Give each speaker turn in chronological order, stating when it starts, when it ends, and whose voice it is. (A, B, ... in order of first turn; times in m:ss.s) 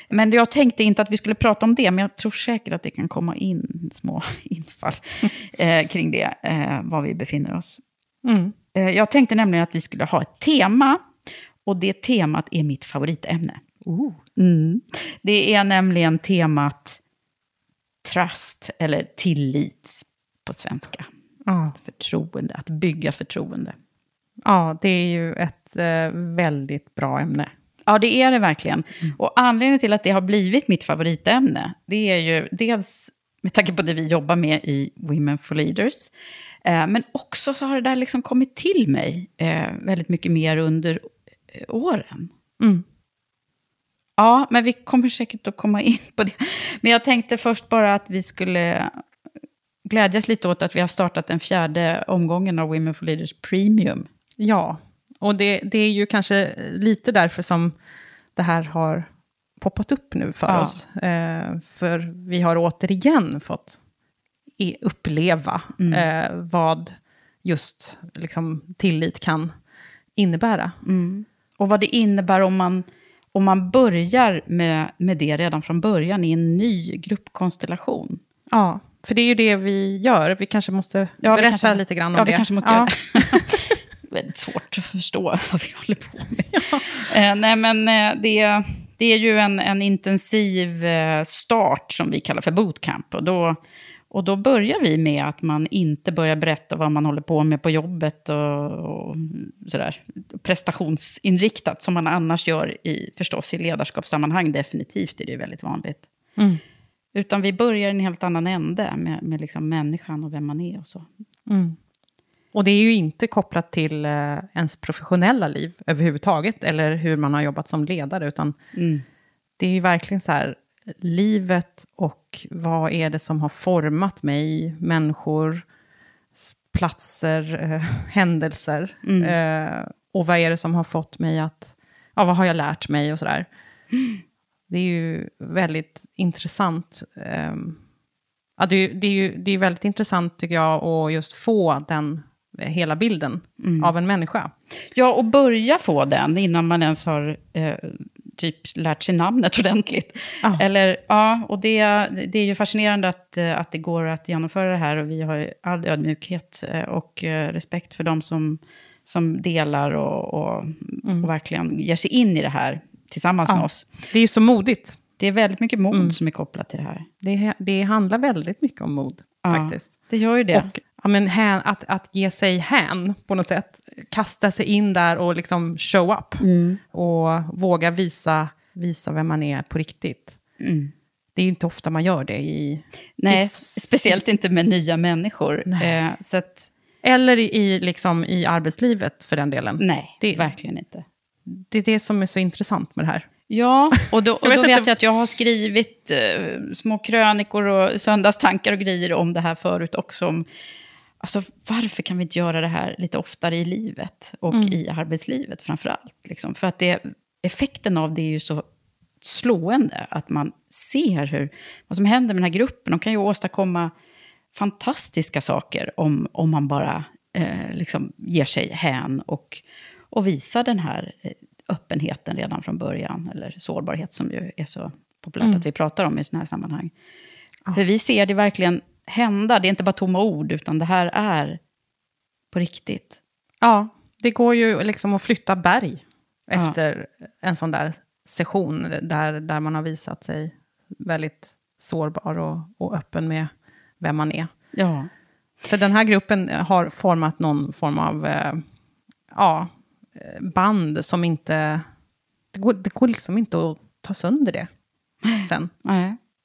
0:00.1-0:07.8 A
0:08.2-0:08.5 B
0:08.8-0:11.0 A
0:11.6-0:13.6 A
0:13.8-0:14.2 B
0:14.4-0:17.0 A
0:18.0-0:21.1 A
0:21.5-0:21.8 B
0:21.8-0:23.8 A
0:24.4-0:27.5 B
0:27.9-0:36.1 A
0:36.6-0:42.3 A
0:44.2-0:49.0 A
0:49.9-0:54.1 A
0:54.4-0:57.7 B
0:58.4-1:03.8 B
1:00.5-1:00.8 A
1:04.6-1:09.5 B
1:05.8-1:06.1 A
1:10.2-1:10.8 B
1:10.8-1:18.2 A
1:18.5-1:23.6 B
1:21.2-1:33.6 A
1:26.5-1:26.9 B
1:34.1-1:46.1 A
1:46.4-1:46.6 B
1:47.2-1:51.1 A
1:51.5-1:51.8 B
1:52.5-1:58.6 B
1:58.8-1:59.0 A
1:59.6-2:05.6 B
2:06.4-2:13.5 B
2:09.0-2:09.4 A
2:13.9-2:14.2 A
2:14.7-2:17.8 B
2:18.6-2:24.5 B
2:23.6-2:23.9 A
2:24.9-2:43.9 A
2:41.0-2:41.3 B
2:43.5-2:45.0 B
2:45.2-2:47.1 A
2:45.9-2:46.2 B
2:47.2-3:00.4 B
2:49.4-2:50.7 A
2:56.4-2:56.8 A
3:00.6-3:00.9 A
3:01.4-3:04.2 B
3:03.2-3:06.7 A
3:05.7-3:06.0 B
3:07.0-3:10.5 B
3:09.8-3:11.0 A
3:11.5-3:13.3 B
3:13.5-3:20.5 A
3:14.4-3:14.9 B
3:21.2-3:28.6 A
3:24.5-3:24.8 B
3:29.2-3:33.9 A
3:34.5-3:46.9 A
3:47.7-3:51.6 A
3:52.5-3:53.2 A
3:53.6-4:04.5 B
4:04.7-4:05.1 A
4:05.7-4:08.6 B
4:09.3-4:11.9 B
4:12.5-4:14.7 B
4:15.2-4:16.2 A
4:15.4-4:15.7 B